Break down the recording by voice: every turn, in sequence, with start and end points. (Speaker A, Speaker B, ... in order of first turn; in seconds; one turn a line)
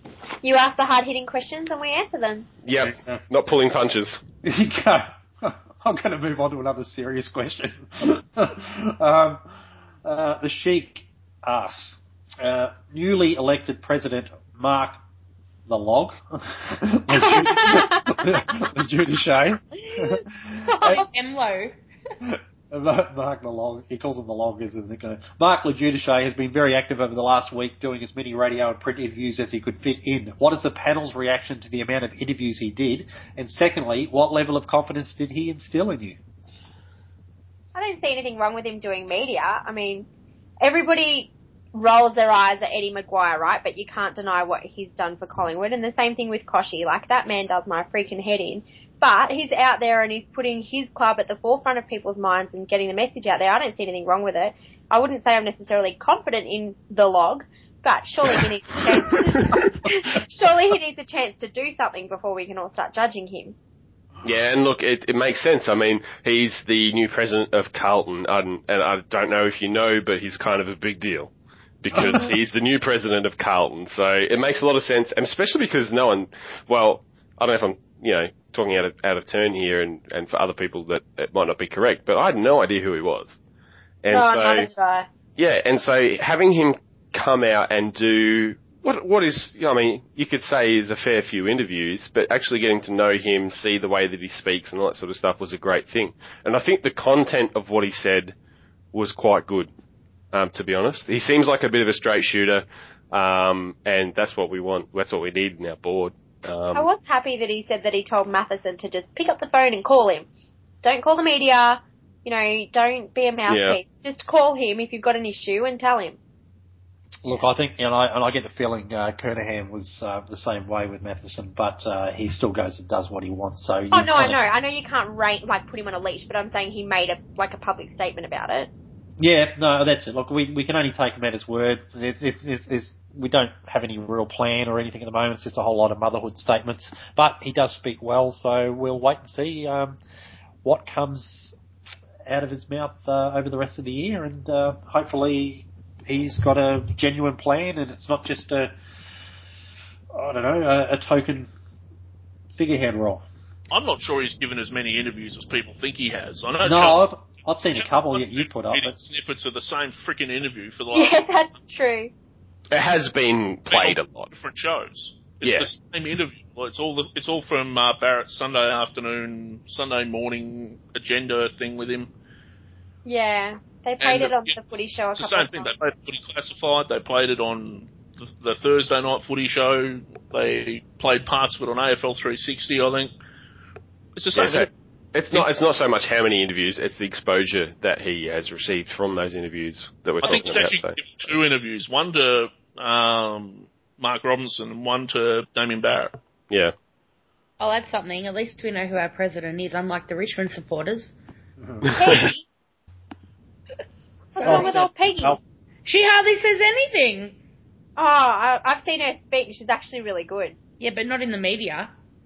Speaker A: 0.4-2.5
Speaker B: 2.6-4.2
Speaker C: 2.8-3.2
Speaker C: 4.4-9.4
Speaker C: 10.0-15.0
Speaker C: 15.7-21.0
Speaker A: 17.2-18.2
Speaker D: 20.6-21.7
Speaker C: 22.2-36.2
Speaker A: 37.7-40.1
Speaker A: 40.6-63.5
Speaker B: 64.2-83.4
Speaker B: 84.0-84.7
Speaker A: 84.1-85.1
Speaker B: 85.4-98.3
Speaker B: 98.9-99.7
Speaker B: 100.3-106.9
Speaker A: 106.7-110.3
Speaker A: 110.8-116.2
Speaker B: 113.5-113.8
Speaker C: 117.2-124.4
Speaker A: 123.9-128.7
Speaker C: 129.2-140.0
Speaker C: 140.6-141.6
Speaker C: 142.2-148.7
Speaker C: 150.1-151.5
Speaker C: 152.5-153.2
Speaker E: 153.7-157.1
Speaker C: 156.6-159.0
Speaker E: 157.8-161.2
Speaker A: 160.9-162.1
Speaker B: 162.7-164.3
Speaker E: 163.7-172.1
Speaker B: 165.4-165.7
Speaker A: 173.0-175.7
Speaker E: 174.0-174.6
Speaker E: 175.1-183.1
Speaker E: 184.2-184.7
Speaker B: 184.3-190.9
Speaker E: 190.2-196.1
Speaker D: 197.6-201.1
Speaker C: 201.6-201.9
Speaker A: 201.9-202.4
Speaker A: 204.3-205.4
Speaker D: 204.4-204.9
Speaker D: 205.8-207.4
Speaker A: 208.0-210.6
Speaker D: 210.8-211.9